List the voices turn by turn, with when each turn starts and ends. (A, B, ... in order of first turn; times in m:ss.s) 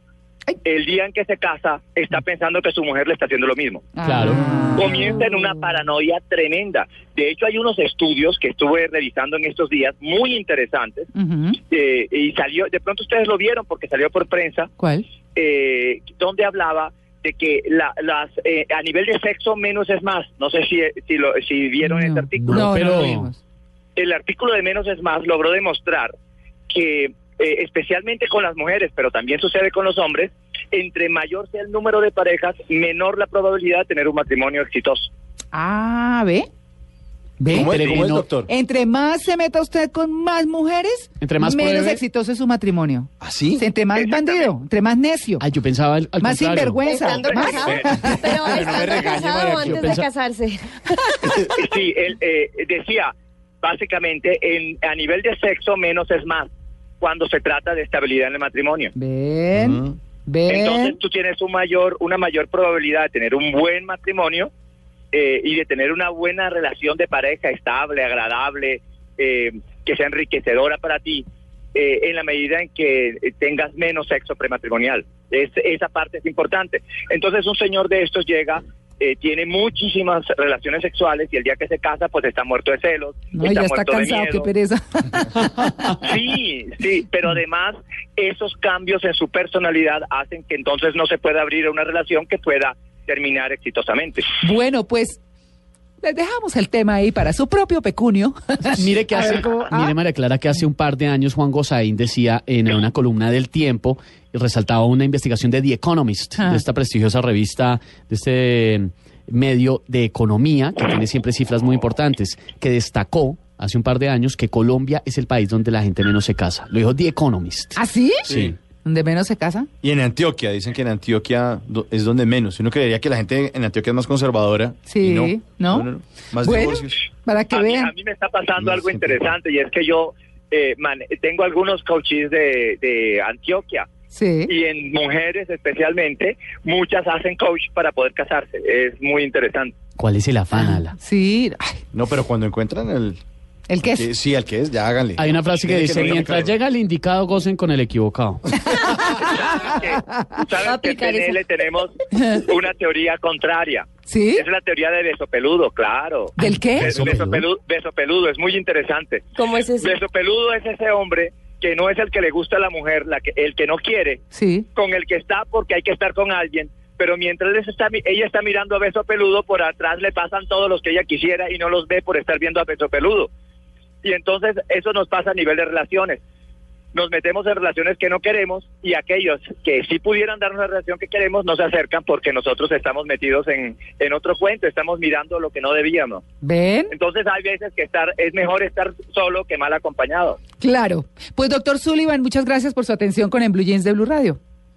0:00.6-0:03.9 A
0:04.0-0:05.2 B
0:04.0-0:04.4 C
0:04.7-0:11.1 A
0:11.1-0:11.6 B
0:11.7-0:14.7 A
0:14.8-0:15.0 B
0:15.3-0:22.6 A
0:21.8-0:23.4 B
0:22.4-0:23.3 C
0:24.0-0:26.1 A
0:26.7-0:35.1 A
0:35.5-0:36.5 B
0:37.4-0:37.7 B
0:37.5-0:38.3 C
0:37.5-0:38.5 D
0:38.4-0:45.4 B
0:41.2-0:42.0 C
0:43.2-0:43.6 D
0:43.9-0:44.5 A
0:45.4-0:46.9 C
0:46.2-0:48.4 B
0:46.8-0:51.5 E
0:47.2-0:48.0 A
0:48.4-0:49.9 D
0:49.5-0:50.0 C
0:51.6-0:56.5 A
0:57.0-0:58.9 A
0:59.0-1:01.0 B
0:59.5-1:00.0 D
1:00.5-1:04.5 A
1:05.1-1:24.5 A
1:23.3-1:26.1 B
1:26.0-1:34.2 A
1:34.4-1:35.2 B
1:36.0-1:39.9 B
1:38.7-1:58.5 C
1:46.4-1:46.6 B
1:57.8-1:58.3 B
1:58.3-1:58.5 D
1:58.8-1:59.7 B
1:59.8-2:07.0 D
2:04.9-2:05.9 B
2:06.4-2:07.9 B
2:07.5-2:13.9 A
2:08.6-2:09.2 D
2:14.1-2:14.5 B
2:14.5-2:19.7 A
2:20.0-2:20.9 C
2:20.5-2:21.8 B
2:21.9-2:23.2 D
2:23.7-2:24.1 B
2:23.8-2:26.5 D
2:25.2-2:28.4 C
2:29.0-2:39.3 A
2:30.6-2:31.4 E
2:34.1-2:34.4 B
2:36.4-2:37.0 B
2:36.8-2:37.4 C
2:39.4-2:40.0 E
2:39.8-2:44.2 A
2:44.3-2:44.7 B
2:44.7-2:53.3 A
2:54.0-2:56.2 A
2:56.9-3:06.2 A
3:06.4-3:06.9 B
3:06.9-3:10.4 A
3:10.6-3:14.4 B